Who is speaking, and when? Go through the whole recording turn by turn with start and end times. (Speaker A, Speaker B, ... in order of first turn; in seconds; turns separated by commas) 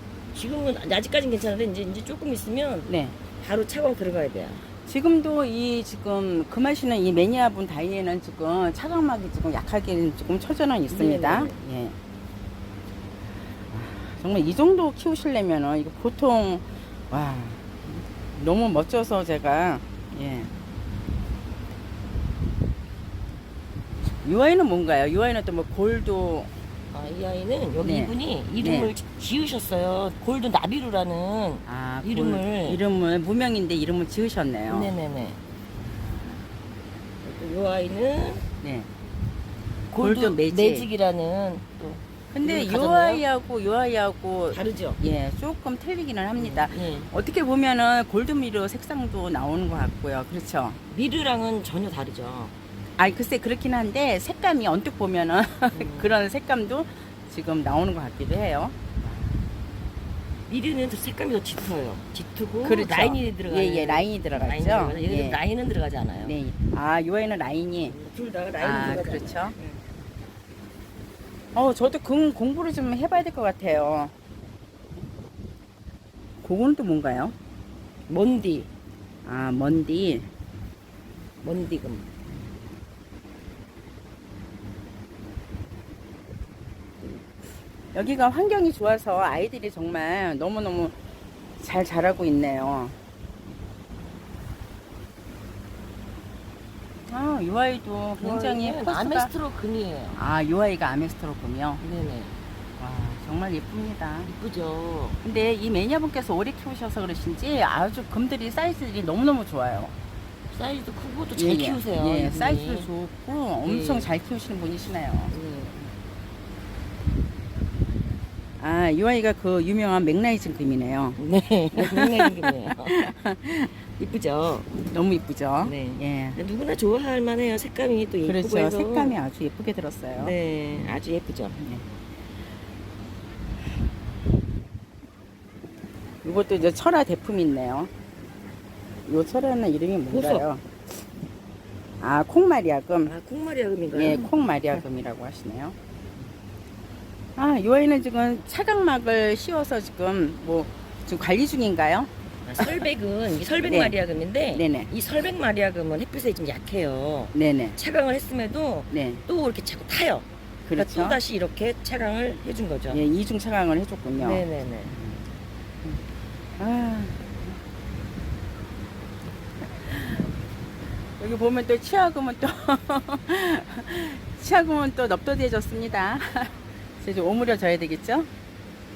Speaker A: 0.3-4.6, Speaker B: 2.9-3.2, Speaker B: 4.9-11.9, Speaker A: 10.9-11.6, Speaker B: 13.7-20.5, Speaker B: 24.2-26.5, Speaker A: 26.9-32.8, Speaker B: 27.8-28.9, Speaker B: 31.7-34.9, Speaker A: 34.7-35.4, Speaker B: 35.8-36.5, Speaker A: 37.2-38.5, Speaker B: 38.6-38.9, Speaker A: 39.9-43.2, Speaker B: 40.0-40.9, Speaker B: 42.3-50.8, Speaker A: 44.5-45.0, Speaker A: 46.4-47.1, Speaker A: 50.9-52.5, Speaker B: 53.0-59.4, Speaker A: 55.7-56.1, Speaker A: 60.5-66.4, Speaker B: 62.6-65.4, Speaker B: 66.2-68.0, Speaker A: 67.9-69.8, Speaker B: 68.6-69.6, Speaker B: 71.5-74.1, Speaker B: 76.4-77.3, Speaker A: 78.1-78.7, Speaker B: 79.2-80.3, Speaker A: 81.4-82.1, Speaker B: 87.9-91.0, Speaker B: 91.6-93.0, Speaker B: 97.1-99.3, Speaker A: 98.2-100.2, Speaker B: 100.1-101.8, Speaker A: 101.8-102.4, Speaker B: 102.8-104.3, Speaker A: 104.3-105.2, Speaker B: 105.2-110.0, Speaker A: 110.5-112.9, Speaker B: 111.4-115.3, Speaker A: 113.6-114.1, Speaker A: 115.3-115.7, Speaker B: 118.6-121.2, Speaker A: 121.2-123.1, Speaker B: 121.8-123.7, Speaker A: 123.8-124.7, Speaker B: 124.8-126.4, Speaker A: 125.6-129.2, Speaker B: 128.2-130.3, Speaker A: 130.2-131.6, Speaker B: 131.6-131.8, Speaker B: 136.2-137.9, Speaker B: 139.1-140.6, Speaker A: 140.1-140.4, Speaker B: 142.0-143.1, Speaker A: 143.1-144.8, Speaker B: 143.9-145.8, Speaker B: 147.4-152.8, Speaker A: 152.5-163.0, Speaker B: 153.6-154.0, Speaker B: 154.5-154.9, Speaker B: 157.3-157.8, Speaker B: 158.9-159.2, Speaker B: 160.7-161.2, Speaker B: 162.9-165.2, Speaker A: 164.2-164.9, Speaker B: 166.6-167.3, Speaker B: 169.8-170.2, Speaker B: 171.2-178.3